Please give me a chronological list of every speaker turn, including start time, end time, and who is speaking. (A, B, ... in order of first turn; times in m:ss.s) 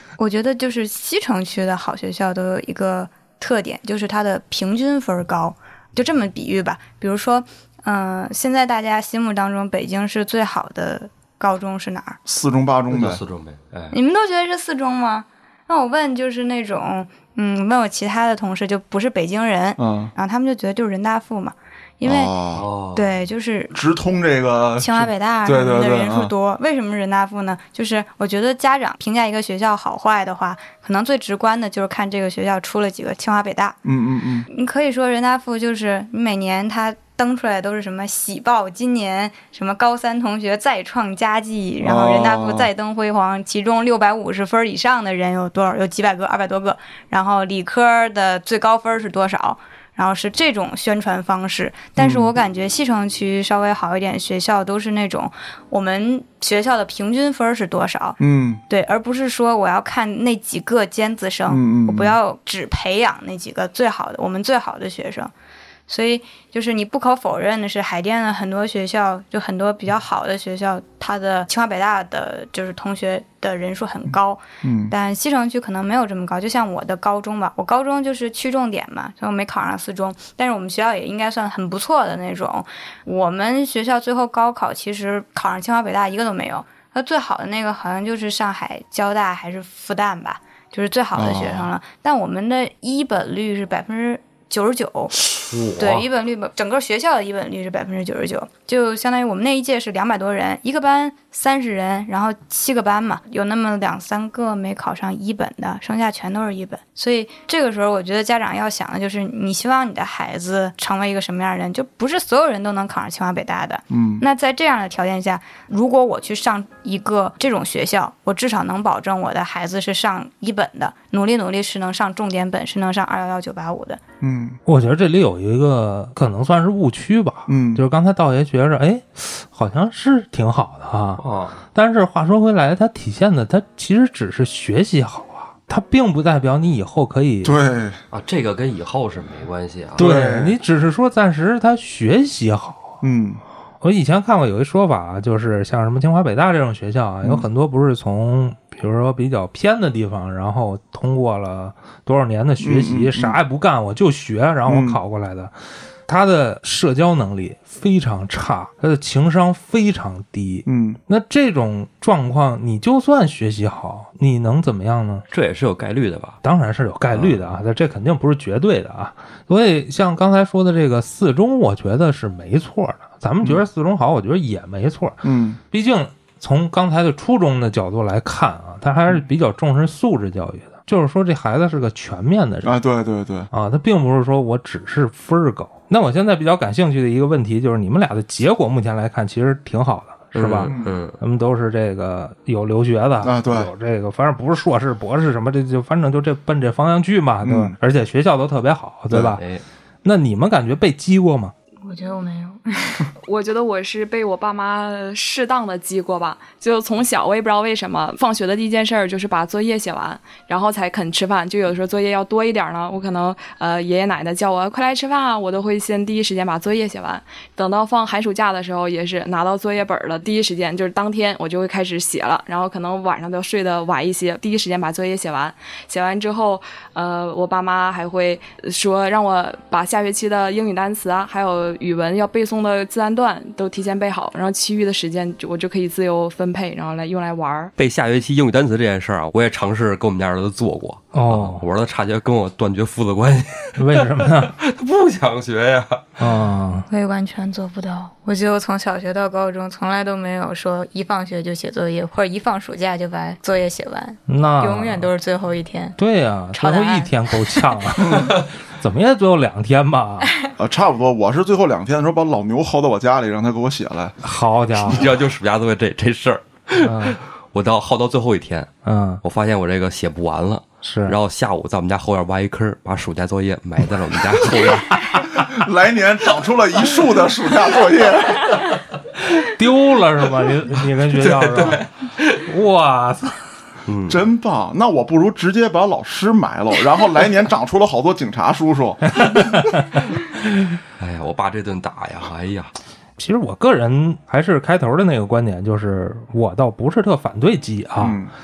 0:00.2-0:12.2 A
0:12.3-0:13.2 B
0:12.9-0:14.0 C
0:13.9-0:22.3 A
0:19.8-0:20.1 B
0:22.0-0:22.6 B
0:22.5-0:23.2 C
0:22.9-0:23.7 A
0:23.7-0:26.3 B
0:24.8-0:33.8 A
0:33.8-0:34.4 B
0:34.5-1:05.3 A
0:41.8-0:42.7 B
0:52.0-0:52.3 B
0:58.2-0:58.6 B
1:01.5-1:02.2 B
1:05.9-1:35.1 A
1:14.6-1:14.9 B
1:31.1-1:31.7 B
1:35.5-1:36.1 C
1:35.8-2:04.0 A
1:53.9-1:54.2 B
2:04.2-2:04.6 B
2:04.6-2:17.5 D
2:07.5-2:07.8 B
2:11.2-2:11.6 C
2:17.4-2:18.0 B
2:18.1-2:20.1 C
2:20.0-2:20.6 B
2:20.0-2:23.0 D
2:23.0-2:23.4 B
2:23.8-2:35.5 D
2:27.2-2:27.5 B
2:32.6-2:33.4 B
2:34.7-2:35.0 B
2:36.0-2:45.2 D
2:40.7-2:41.0 B
2:45.3-2:46.4 C
2:46.4-3:02.7 D
2:47.1-2:47.4 C
2:55.2-2:55.6 B
3:02.6-3:03.5 B
3:03.5-3:19.4 D
3:10.3-3:11.2 C
3:10.6-3:10.9 B
3:13.2-3:13.7 B
3:17.4-3:17.7 B
3:19.1-3:19.6 C
3:20.0-3:21.5 D
3:21.8-3:23.0 A
3:23.2-3:57.7 E
3:57.8-4:06.2 C
4:01.1-4:01.6 D
4:03.8-4:04.5 D
4:06.2-4:06.9 D
4:06.9-4:16.0 A
4:14.3-4:15.1 D
4:16.0-4:20.3 D
4:16.5-4:17.6 A
4:18.0-4:18.3 B
4:20.6-4:24.2 B
4:24.2-4:25.1 D
4:24.8-4:35.0 C
4:26.8-4:27.2 D
4:28.8-4:29.2 D
4:30.8-4:31.2 D
4:35.3-4:38.6 B
4:39.3-4:41.8 D
4:41.1-4:42.4 C
4:42.4-4:43.4 D
4:43.9-4:44.2 C
4:44.1-4:49.7 B
4:49.2-4:50.0 D
4:51.0-4:52.7 C
4:53.2-4:58.2 D
4:58.0-4:58.3 B